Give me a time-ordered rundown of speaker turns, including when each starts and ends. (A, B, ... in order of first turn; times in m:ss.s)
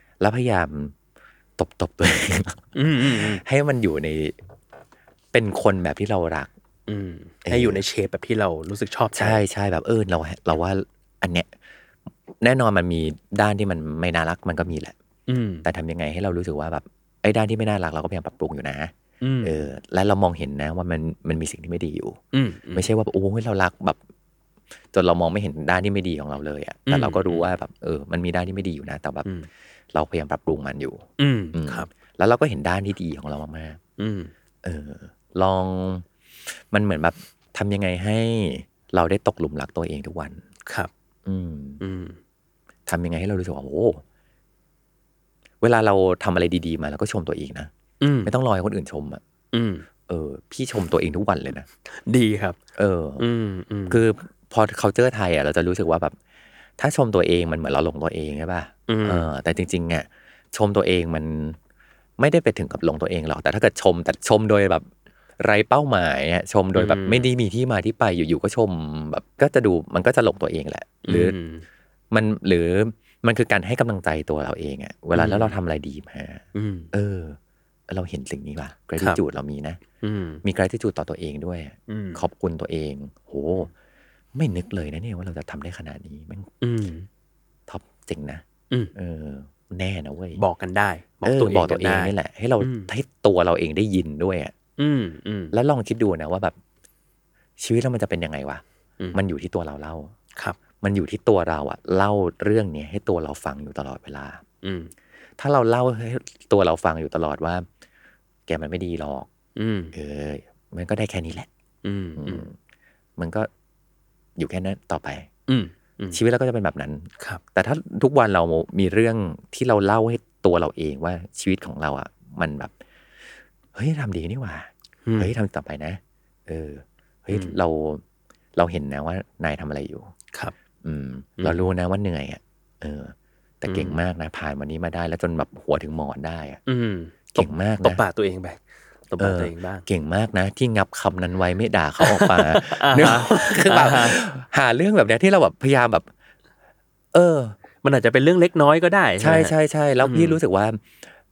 0:00.2-0:01.0 A
0:01.6-0:04.4 A
0:02.8-0:03.4 B
0:05.3-0:06.5 A
0:06.9-0:09.4 B
0:07.5-0:07.8 A
0:09.2-0:11.5 A
0:12.4-0:15.0 A
0:15.3-0:15.6 B
0:15.6-0:22.2 A
0:19.2-0:19.7 B
0:22.3-0:22.9 B
0:22.7-0:24.0 A
0:24.9-0:29.3 A
0:26.9-0:27.5 B
0:29.9-0:33.8 A
0:31.2-0:31.9 B
0:34.0-0:34.3 B
0:34.6-0:40.4 A
0:41.2-0:41.8 A
0:41.8-0:42.2 B
0:42.9-0:44.0 A
0:45.6-0:47.7 A
0:48.0-0:48.3 B
0:48.2-0:49.2 A
0:49.5-0:49.9 B
0:50.1-0:51.7 A
0:51.9-0:52.6 B
0:52.8-0:53.2 A
0:53.2-0:54.0 B
0:53.9-0:56.2 A
0:56.8-1:01.6 A
0:58.9-0:59.3 B
1:02.2-1:04.9 A
1:05.4-1:11.4 A
1:06.8-1:07.3 B
1:11.0-1:11.6 B
1:12.1-1:19.8 A
1:15.2-1:15.6 B
1:16.6-1:16.9 B
1:20.0-1:20.4 B
1:20.4-1:23.7 A
1:21.9-1:22.2 B
1:24.3-1:26.5 A
1:26.6-1:27.1 B
1:27.7-1:28.4 A
1:29.0-1:30.4 A
1:30.4-1:32.9 B
1:31.2-1:34.5 A
1:34.8-1:35.5 B
1:35.5-1:36.6 A
1:37.6-1:38.6 A
1:39.1-1:40.1 A
1:40.8-1:44.4 A
1:44.6-1:44.9 B
1:45.4-1:47.7 A
1:48.5-1:49.3 A
1:49.6-1:49.9 B
1:49.9-1:51.5 A
1:51.8-1:52.5 B
1:52.2-1:52.5 A
1:53.2-1:53.5 A
1:54.4-1:55.3 A
1:55.5-1:56.2 B
1:56.1-2:02.7 A
2:03.7-2:08.0 A
2:05.0-2:05.3 B
2:08.6-2:10.1 A
2:10.8-2:16.6 A
2:11.4-2:11.6 B
2:13.7-2:14.0 B
2:16.7-2:19.9 B
2:17.4-2:18.0 A
2:19.2-2:26.1 A
2:22.0-2:24.2 B
2:27.1-2:27.6 A
2:27.8-2:30.4 B
2:29.2-2:31.0 A